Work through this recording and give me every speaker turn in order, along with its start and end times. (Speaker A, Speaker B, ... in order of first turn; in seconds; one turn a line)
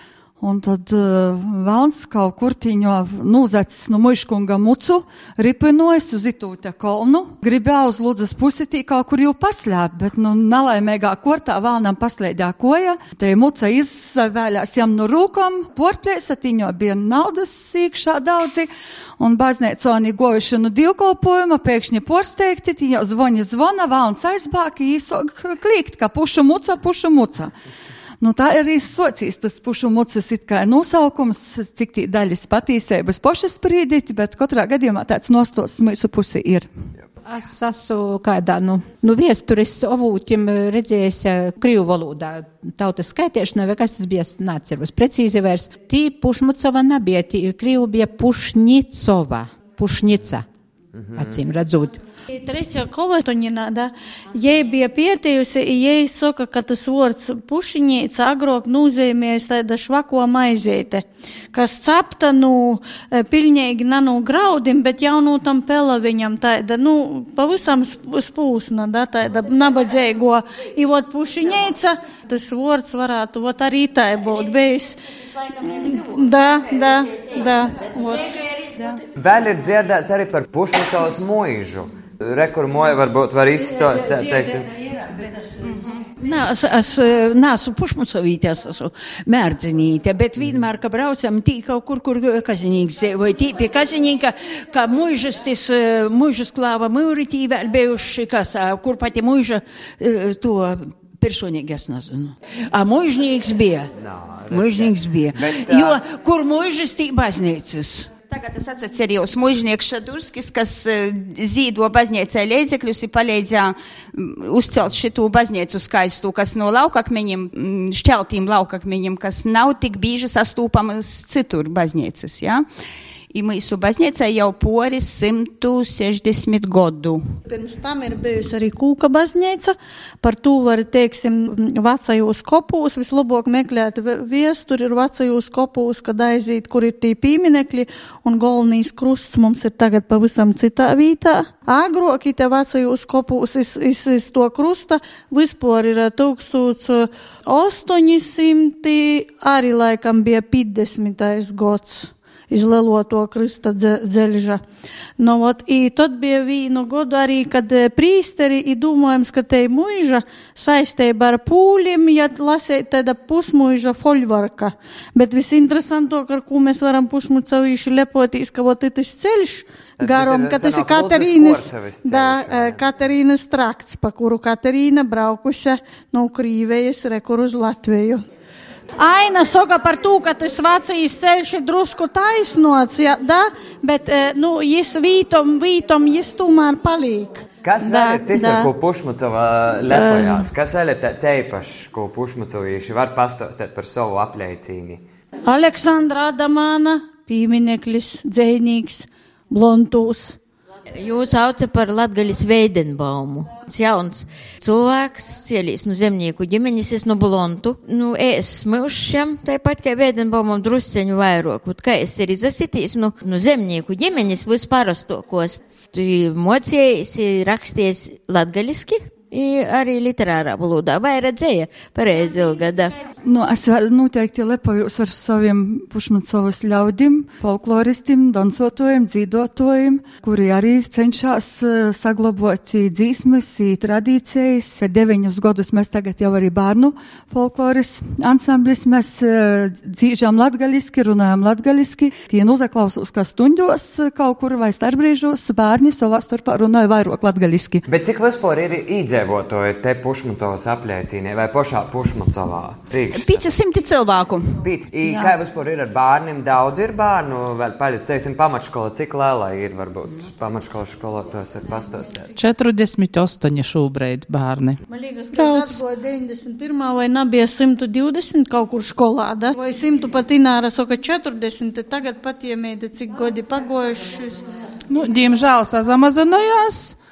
Speaker A: 0.4-27.5
Speaker A: 28.2-36.7
Speaker B: 37.2-50.5
Speaker C: 51.0-51.4
Speaker B: 51.1-52.0
Speaker D: 52.3-78.4
Speaker C: 79.2-84.7
Speaker E: 85.6-86.0
Speaker F: 86.2-103.9
Speaker C: 104.0-106.0
Speaker F: 104.5-108.1
Speaker E: 108.3-122.7
Speaker E: 123.3-127.2
Speaker D: 127.5-154.6
Speaker D: 155.2-178.2
Speaker C: 170.0-172.8
Speaker D: 179.0-188.7
Speaker C: 187.6-195.0
Speaker D: 189.8-190.5
Speaker D: 195.4-200.4
Speaker G: 200.9-222.9
Speaker A: 223.2-247.8
Speaker C: 247.9-253.4
Speaker E: 253.1-254.6
Speaker C: 254.6-262.3
Speaker H: 262.4-264.8
Speaker D: 264.9-274.4
Speaker H: 274.9-276.9